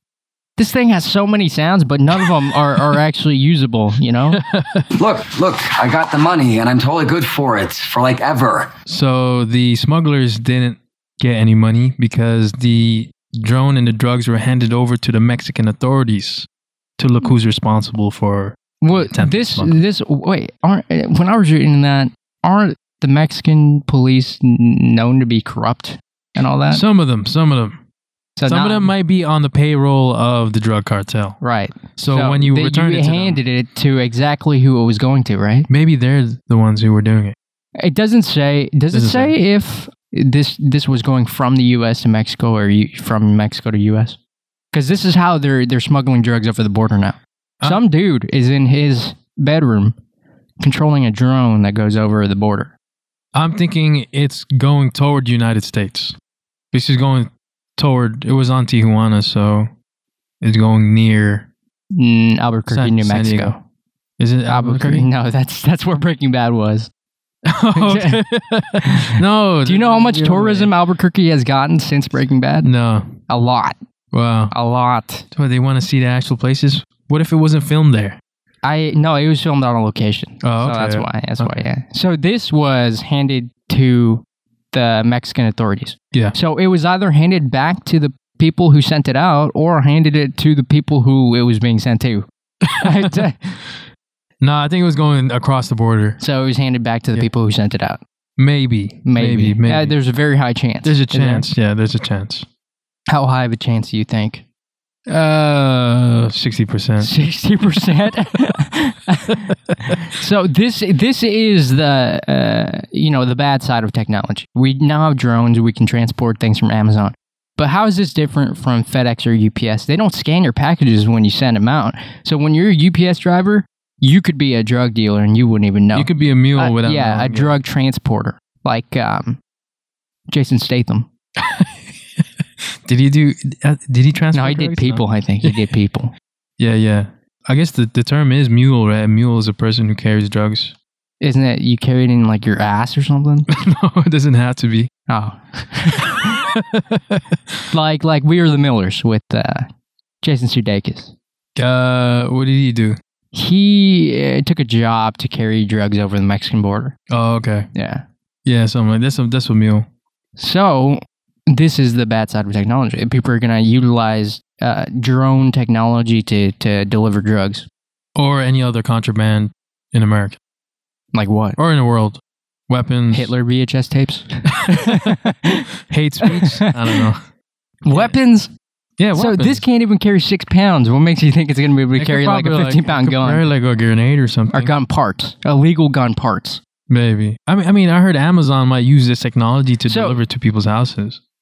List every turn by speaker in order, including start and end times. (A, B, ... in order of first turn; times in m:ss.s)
0:00.6-0:04.4 A
0:04.3-0:04.9 B
0:04.9-0:08.7 C
0:08.9-0:19.8 B
0:18.8-0:26.8 A
0:26.7-0:27.8 B
0:28.4-0:28.9 A
0:28.4-0:31.4 B
0:31.4-0:35.7 A
0:31.9-0:33.4 B
0:35.7-0:37.4 B
0:37.8-0:44.2 A
0:38.9-0:39.3 B
0:44.7-0:50.0 A
0:50.6-0:52.7 A
0:53.3-0:56.2 B
0:56.7-0:59.7 B
1:00.4-1:01.5 B
1:01.9-1:03.6 A
1:02.7-1:03.5 B
1:04.2-1:05.1 B
1:04.5-1:06.9 A
1:07.4-1:10.7 B
1:07.7-1:08.2 A
1:08.8-1:09.1 A
1:09.6-1:12.7 A
1:12.6-1:13.2 B
1:13.3-1:13.8 A
1:14.1-1:14.5 B
1:14.5-1:15.2 A
1:15.3-1:18.2 B
1:18.6-1:33.6 A
1:20.4-1:21.6 B
1:32.6-1:33.2 B
1:34.4-1:36.2 B
1:36.2-1:38.0 A
1:38.4-1:39.9 B
1:39.0-1:41.4 A
1:40.8-1:42.4 B
1:43.1-1:44.4 A
1:45.1-1:47.1 B
1:47.0-2:09.4 A
2:05.9-2:07.5 B
2:10.3-2:11.1 A
2:11.4-2:15.6 B
2:14.3-2:16.1 A
2:16.6-2:20.7 B
2:21.2-2:23.5 A
2:23.5-2:24.9 B
2:25.1-2:26.3 A
2:26.2-2:27.6 B
2:27.7-2:29.7 A
2:30.2-2:31.1 A
2:31.6-2:33.0 B
2:33.3-2:37.0 A
2:37.1-2:37.7 B
2:37.7-2:38.0 A
2:38.4-2:39.8 B
2:40.4-2:47.7 A
2:48.2-2:50.4 B
2:51.1-2:51.6 A
2:51.6-2:53.3 B
2:53.1-2:55.7 A
2:54.6-2:55.2 B
2:55.9-2:57.3 B
2:56.2-2:57.1 A
2:57.8-2:58.5 A
2:59.0-2:59.6 B
2:59.1-3:03.5 A
3:02.0-3:04.7 B
3:04.5-3:06.6 A
3:06.9-3:11.2 B
3:09.9-3:10.2 A